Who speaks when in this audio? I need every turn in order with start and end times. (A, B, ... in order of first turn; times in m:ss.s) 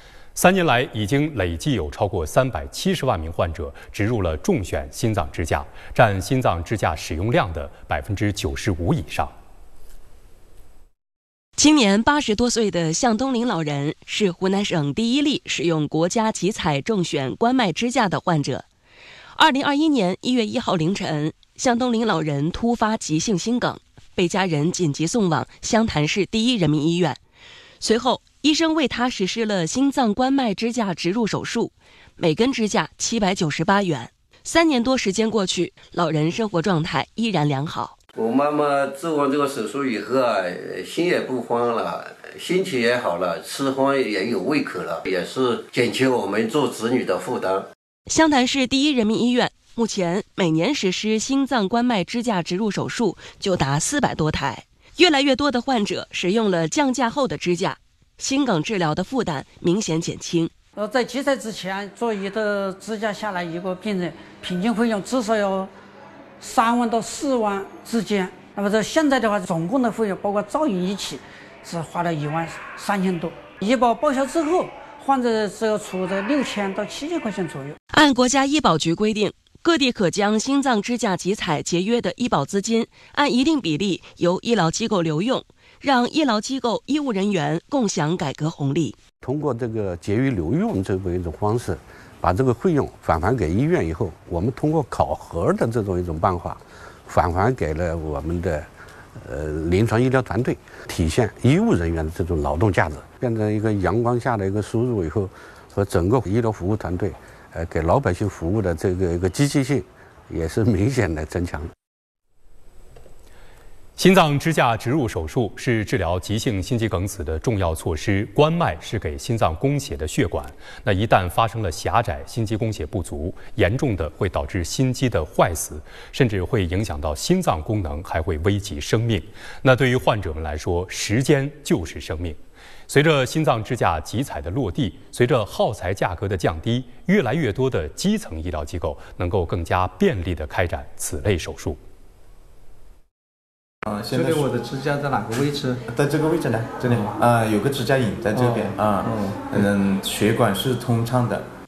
0:00.4-0:09.3 A
0:11.6-0:18.6 B
0:19.4-0:27.2 B
0:27.8-0:38.0 B
0:38.2-0:47.6 C
0:48.1-1:00.5 B
1:00.8-1:05.7 D
1:06.4-1:17.8 D
1:17.9-1:29.0 B
1:29.2-1:38.7 E
1:39.2-1:51.7 E
1:54.0-2:12.4 A
2:12.9-2:21.8 A
2:23.9-2:24.5 F
2:24.1-2:25.7 G
2:25.9-2:31.4 F
2:28.4-2:29.2 G